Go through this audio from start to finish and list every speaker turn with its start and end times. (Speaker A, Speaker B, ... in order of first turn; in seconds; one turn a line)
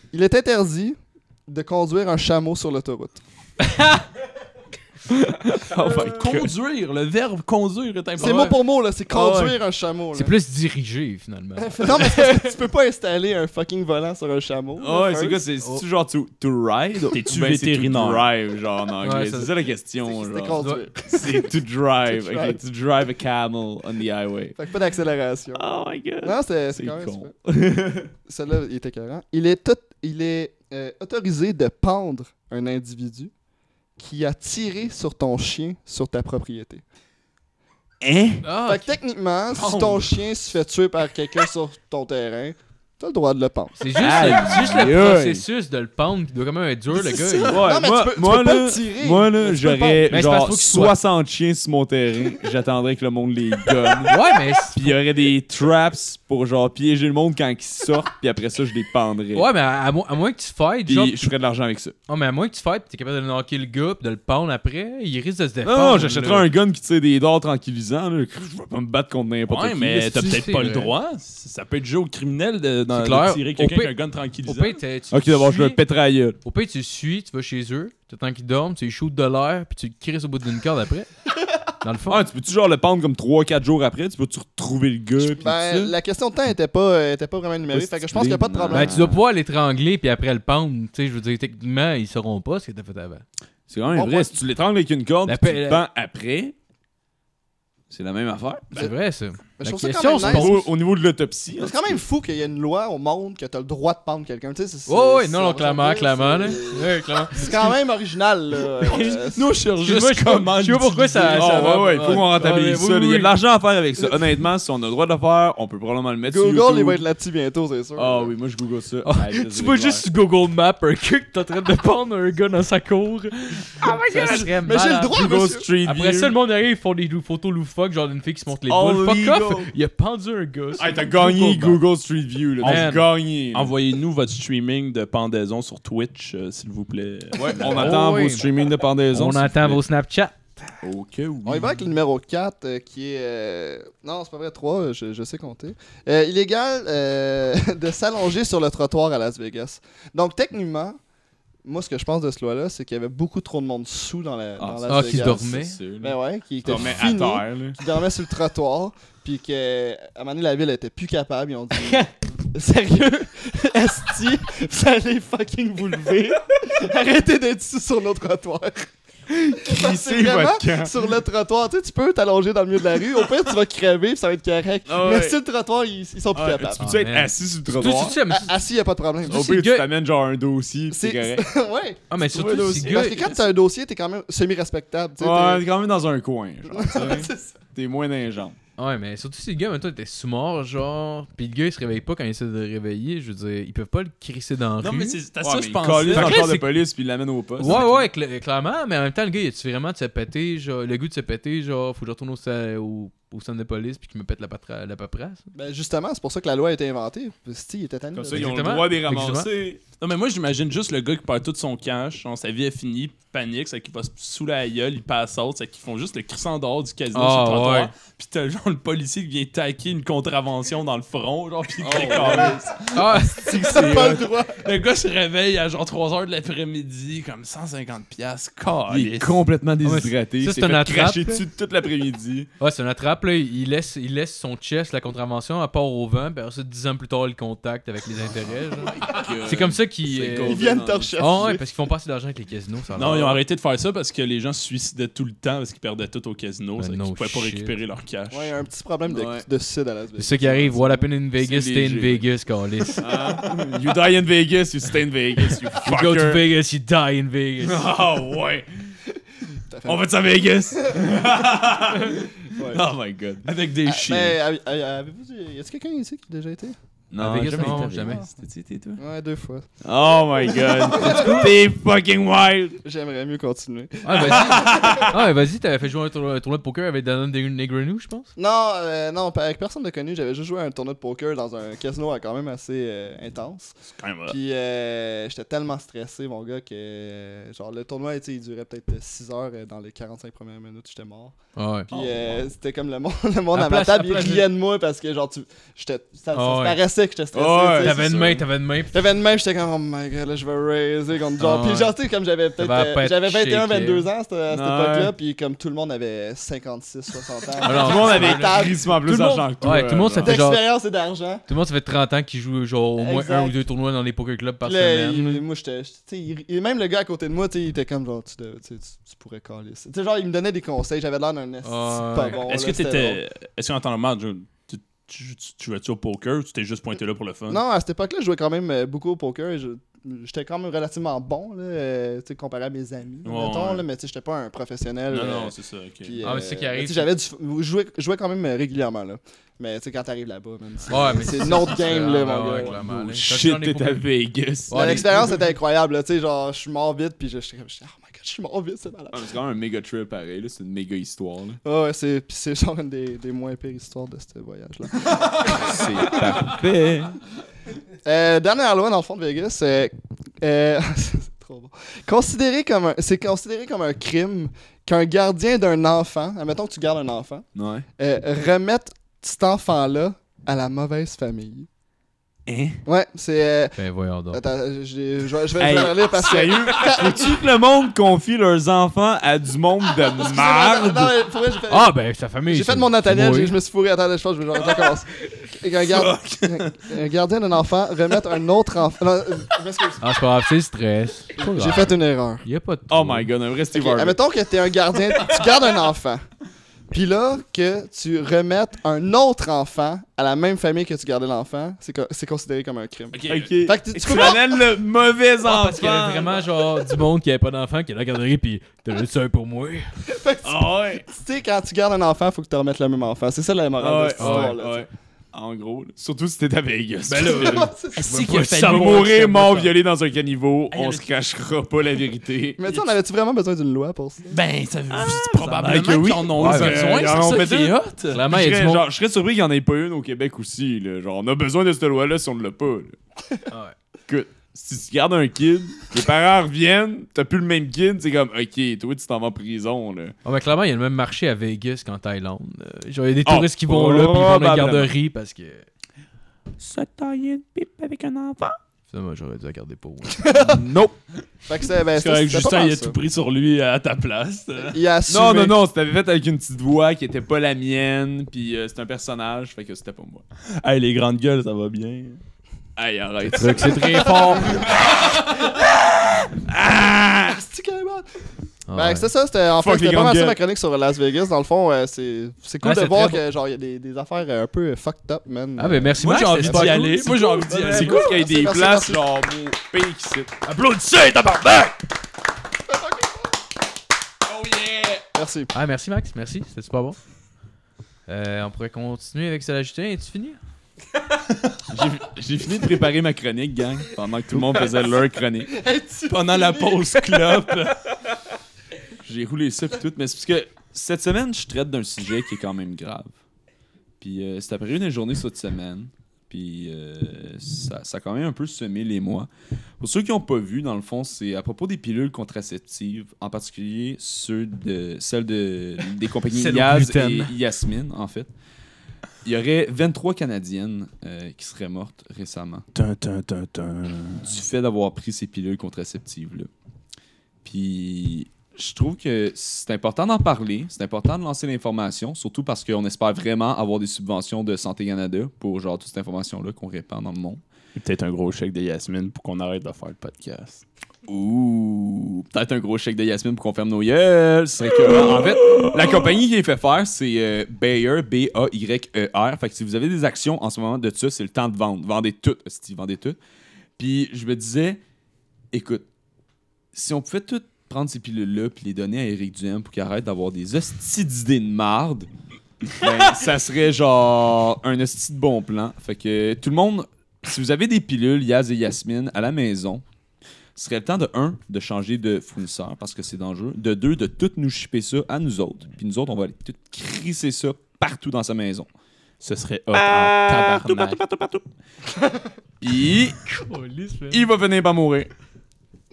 Speaker A: 0.1-3.2
Speaker B: 3.6-4.0
Speaker C: 5.1-6.5
Speaker D: 6.1-8.5
Speaker A: 8.2-10.3
Speaker B: 8.2-8.6
Speaker B: 9.1-9.6
Speaker B: 10.1-12.5
Speaker A: 11.6-15.4
Speaker C: 14.8-24.6
Speaker D: 17.1-18.3
Speaker B: 19.0-19.5
Speaker A: 20.1-21.5
Speaker B: 20.6-20.9
Speaker A: 22.1-22.6
Speaker A: 24.6-25.6
Speaker C: 25.5-28.1
Speaker A: 26.2-27.3
Speaker A: 28.2-33.3
Speaker A: 34.0-36.8
Speaker C: 38.0-38.4
Speaker B: 38.4-38.9
Speaker A: 38.6-43.8
Speaker C: 39.5-40.1
Speaker B: 43.8-47.6
Speaker C: 44.0-45.4
Speaker A: 46.9-50.2
Speaker C: 47.5-54.1
Speaker B: 50.1-51.0
Speaker B: 54.1-54.9
Speaker C: 54.7-59.5
Speaker B: 59.3-61.3
Speaker C: 60.9-61.9
Speaker B: 62.1-66.5
Speaker C: 65.6-70.4
Speaker D: 69.5-74.8
Speaker B: 70.1-70.9
Speaker B: 72.9-73.9
Speaker B: 74.4-75.8
Speaker C: 75.1-76.4
Speaker B: 76.4-81.1
Speaker B: 81.8-82.2
Speaker C: 82.1-85.9
Speaker A: 85.3-89.0
Speaker C: 87.7-89.2
Speaker B: 88.7-93.2
Speaker C: 93.7-96.5
Speaker A: 93.9-94.3
Speaker B: 95.2-95.8
Speaker C: 97.9-98.9
Speaker B: 98.7-100.7
Speaker A: 99.6-100.6
Speaker C: 100.2-101.9
Speaker A: 101.6-109.4
Speaker B: 104.9-107.7
Speaker B: 108.8-109.3
Speaker D: 109.3-111.8
Speaker B: 109.8-113.3
Speaker C: 111.3-117.0
Speaker A: 116.3-118.3
Speaker C: 117.9-120.1
Speaker B: 119.0-125.2
Speaker C: 123.8-124.5
Speaker A: 123.8-125.7
Speaker C: 125.1-126.3
Speaker B: 125.8-131.8
Speaker C: 128.7-129.7
Speaker C: 130.8-133.7
Speaker D: 132.6-138.0
Speaker B: 132.6-133.0
Speaker C: 137.3-139.8
Speaker B: 137.6-138.5
Speaker B: 139.1-140.3
Speaker C: 140.8-141.8
Speaker A: 141.4-151.0
Speaker A: 151.6-168.9
Speaker C: 154.6-157.8
Speaker B: 154.9-155.8
Speaker C: 169.3-171.1
Speaker A: 169.6-176.8
Speaker C: 174.8-175.4
Speaker C: 176.3-178.2
Speaker B: 176.8-178.5
Speaker A: 178.3-179.5
Speaker C: 179.2-181.5
Speaker B: 179.3-179.9
Speaker A: 180.9-182.1
Speaker B: 182.1-183.3
Speaker C: 182.2-183.1
Speaker A: 182.8-185.7
Speaker C: 185.2-188.6
Speaker A: 186.7-187.6
Speaker B: 188.8-195.2
Speaker D: 194.8-196.6
Speaker C: 195.4-198.0
Speaker B: 196.1-196.6
Speaker B: 197.6-205.4
Speaker A: 205.5-208.8
Speaker C: 208.1-209.8
Speaker B: 208.3-209.5
Speaker D: 210.0-222.8
Speaker B: 217.1-217.9
Speaker C: 221.8-224.2
Speaker A: 221.9-222.5
Speaker B: 222.9-223.6
Speaker A: 223.3-224.6
Speaker D: 223.4-229.4
Speaker C: 228.9-232.5
Speaker B: 229.8-231.4
Speaker B: 232.6-240.6
Speaker C: 238.7-241.5
Speaker A: 240.4-241.6
Speaker B: 241.2-243.4
Speaker D: 242.9-248.5
Speaker B: 246.8-247.8
Speaker A: 248.3-251.1
Speaker C: 249.1-249.4
Speaker B: 250.2-253.1
Speaker C: 251.4-252.3
Speaker C: 253.0-256.4
Speaker B: 255.8-257.9
Speaker C: 257.6-258.7
Speaker A: 259.7-260.0
Speaker C: 259.8-263.5
Speaker A: 262.5-262.8
Speaker D: 263.4-264.4
Speaker A: 263.8-266.8
Speaker C: 267.1-269.0
Speaker B: 267.2-268.2
Speaker A: 267.6-268.3
Speaker A: 269.0-269.7
Speaker C: 269.8-272.8
Speaker A: 270.6-271.4
Speaker B: 271.0-271.5
Speaker A: 272.8-275.1
Speaker B: 274.0-278.3
Speaker C: 274.2-275.1
Speaker A: 278.4-283.7
Speaker D: 284.0-284.4
Speaker A: 284.3-291.4
Speaker B: 291.6-291.9
Speaker A: 291.9-298.4
Speaker C: 291.9-292.2
Speaker B: 293.5-294.5
Speaker B: 296.3-296.8
Speaker C: 297.3-298.4
Speaker B: 297.8-299.0
Speaker A: 298.9-309.4
Speaker B: 301.4-301.9
Speaker B: 302.6-304.1
Speaker C: 304.5-305.1
Speaker B: 307.6-310.7
Speaker C: 307.6-310.4
Speaker A: 310.2-311.4
Speaker B: 311.5-315.4
Speaker A: 312.9-313.6
Speaker A: 314.6-323.2
Speaker B: 321.6-322.4
Speaker D: 322.4-327.6
Speaker A: 327.5-342.8
Speaker D: 333.2-333.8
Speaker D: 335.1-336.2
Speaker B: 336.2-337.1
Speaker B: 340.9-344.0
Speaker C: 342.6-345.3
Speaker B: 344.7-345.1
Speaker A: 344.7-349.2
Speaker C: 349.1-351.6
Speaker A: 351.6-356.5
Speaker C: 355.4-357.2
Speaker A: 358.0-371.7
Speaker C: 367.5-367.9
Speaker C: 372.5-372.8
Speaker A: 372.8-373.8
Speaker B: 373.8-374.4
Speaker A: 374.3-377.4
Speaker C: 375.6-381.2
Speaker A: 380.1-381.9
Speaker B: 381.7-383.5
Speaker A: 382.5-390.0
Speaker D: 385.9-386.7
Speaker B: 390.0-393.3
Speaker A: 391.4-392.4
Speaker C: 392.9-394.2
Speaker A: 393.7-396.2
Speaker A: 396.9-404.6
Speaker D: 403.1-403.5
Speaker C: 403.3-406.5
Speaker B: 405.4-409.9
Speaker A: 410.1-414.9
Speaker C: 410.4-411.0
Speaker C: 413.8-417.7
Speaker B: 414.2-414.6
Speaker B: 417.1-419.4
Speaker A: 417.3-418.4
Speaker D: 417.9-419.7
Speaker C: 418.4-422.6
Speaker D: 420.7-421.1
Speaker A: 422.6-424.4
Speaker D: 424.3-428.2
Speaker C: 424.9-432.9
Speaker B: 426.4-426.9
Speaker B: 428.1-428.9
Speaker C: 434.1-440.1
Speaker B: 440.2-445.6
Speaker C: 443.2-444.9
Speaker C: 446.6-448.6
Speaker B: 448.9-450.6
Speaker A: 450.2-450.6
Speaker C: 450.4-451.0
Speaker A: 451.5-453.0
Speaker D: 451.9-454.8
Speaker A: 454.7-455.6
Speaker C: 455.1-460.2
Speaker D: 460.6-462.2
Speaker C: 462.8-467.4
Speaker B: 463.3-464.6
Speaker A: 463.9-465.6
Speaker A: 467.2-468.1
Speaker B: 468.7-469.1
Speaker A: 468.7-479.0
Speaker C: 469.5-470.4
Speaker B: 472.6-473.2
Speaker B: 475.6-477.5
Speaker D: 476.0-478.2
Speaker C: 477.6-480.4
Speaker B: 480.4-481.8
Speaker A: 482.7-483.2
Speaker C: 484.3-485.0
Speaker A: 485.1-485.5
Speaker B: 485.5-487.0
Speaker B: 488.1-490.4
Speaker C: 491.7-495.5
Speaker A: 495.5-497.6
Speaker D: 496.1-497.8
Speaker C: 499.0-503.1
Speaker C: 504.0-518.3
Speaker B: 516.3-517.3
Speaker C: 519.2-522.6
Speaker D: 522.7-524.2
Speaker C: 524.2-526.5
Speaker C: 527.4-537.4
Speaker D: 537.8-540.6
Speaker C: 541.1-553.2
Speaker D: 545.0-545.7
Speaker C: 553.8-554.8
Speaker C: 555.5-555.9
Speaker C: 556.7-562.1
Speaker C: 562.7-569.8
Speaker C: 570.5-578.7
Speaker D: 579.2-581.0
Speaker C: 579.7-581.4
Speaker C: 582.6-583.2
Speaker B: 583.2-584.2
Speaker C: 584.1-585.1